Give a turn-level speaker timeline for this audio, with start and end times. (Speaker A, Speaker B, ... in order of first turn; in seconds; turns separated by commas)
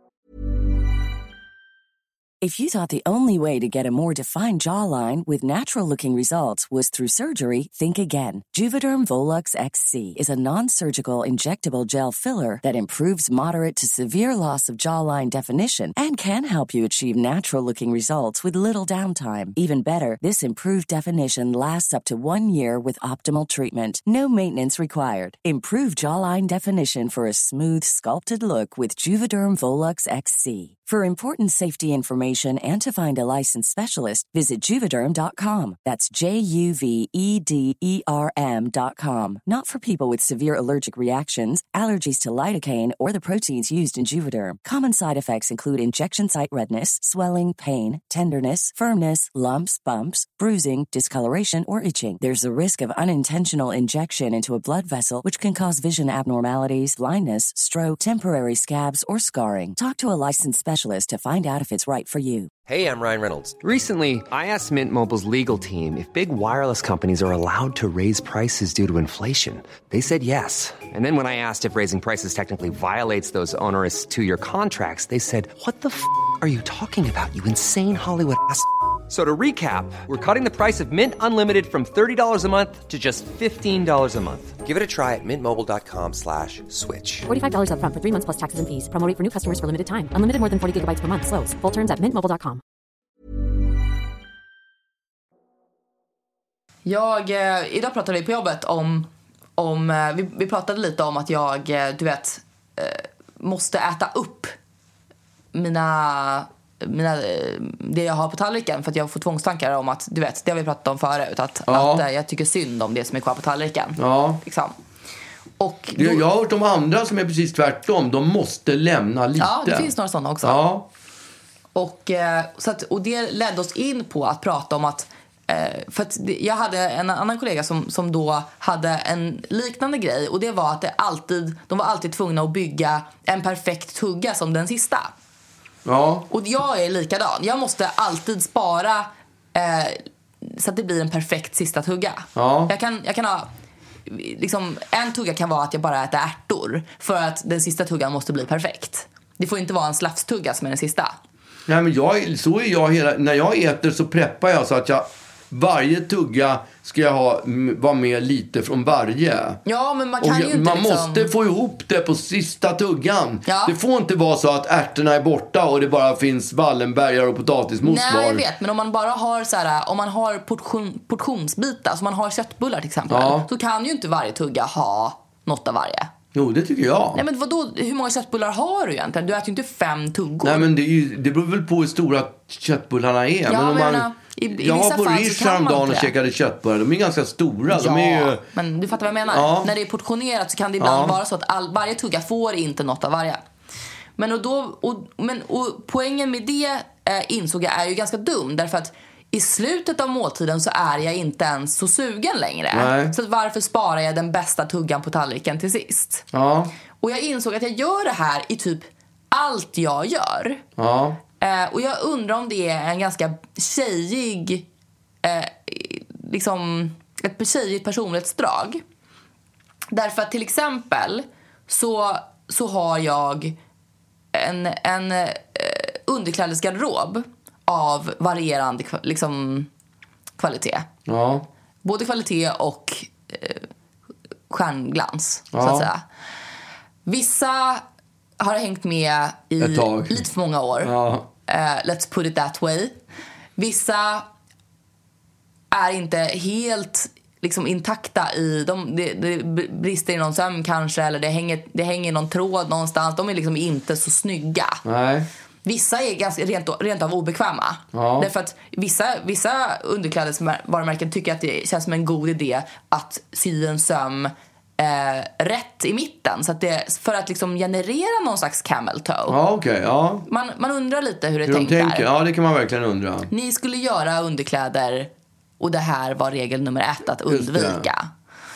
Speaker A: 2.4-62.5, Speaker B: 62.7-87.3, Speaker C: 87.3-92.6, Speaker D: 96.8-104.5, Speaker D: 105.5-114.8, Speaker E: 111.7-112.0, Speaker E: 114.0-114.4, Speaker D: 115.6-116.3, Speaker E: 116.0-119.9, Speaker D: 119.4-120.6, Speaker E: 120.4-120.9, Speaker D: 121.8-135.1, Speaker E: 135.8-136.3, Speaker D: 136.3-143.5, Speaker E: 142.4-142.7, Speaker D: 144.1-151.2, Speaker E: 151.7-159.6, Speaker D: 159.7-161.3, Speaker E: 160.2-168.4, Speaker D: 163.5-163.8, Speaker D: 167.8-176.1, Speaker E: 173.1-173.5, Speaker E: 176.3-177.2, Speaker D: 177.1-180.7, Speaker E: 180.4-188.4, Speaker D: 183.5-186.1, Speaker D: 187.7-193.4, Speaker E: 189.3-189.7, Speaker E: 190.8-191.2, Speaker D: 194.2-206.2, Speaker E: 202.7-203.1, Speaker E: 206.3-206.7, Speaker D: 207.0-210.6, Speaker E: 210.8-211.2, Speaker D: 211.4-214.7, Speaker D: 215.2-218.8, Speaker D: 219.9-223.6, Speaker D: 224.3-229.7, Speaker D: 230.4-230.9, Speaker E: 231.1-231.5, Speaker D: 231.8-233.7, Speaker D: 234.5-236.0, Speaker E: 235.5-235.9, Speaker D: 237.1-237.8, Speaker D: 238.4-240.9, Speaker E: 239.6-240.3, Speaker E: 240.8-241.3, Speaker D: 241.5-243.0, Speaker D: 243.6-244.3, Speaker D: 245.7-254.8, Speaker E: 254.8-255.3, Speaker D: 255.7-269.4, Speaker E: 257.9-258.3, Speaker E: 269.3-270.3, Speaker D: 270.3-272.1, Speaker E: 271.4-273.3, Speaker D: 273.3-278.1, Speaker E: 277.3-277.9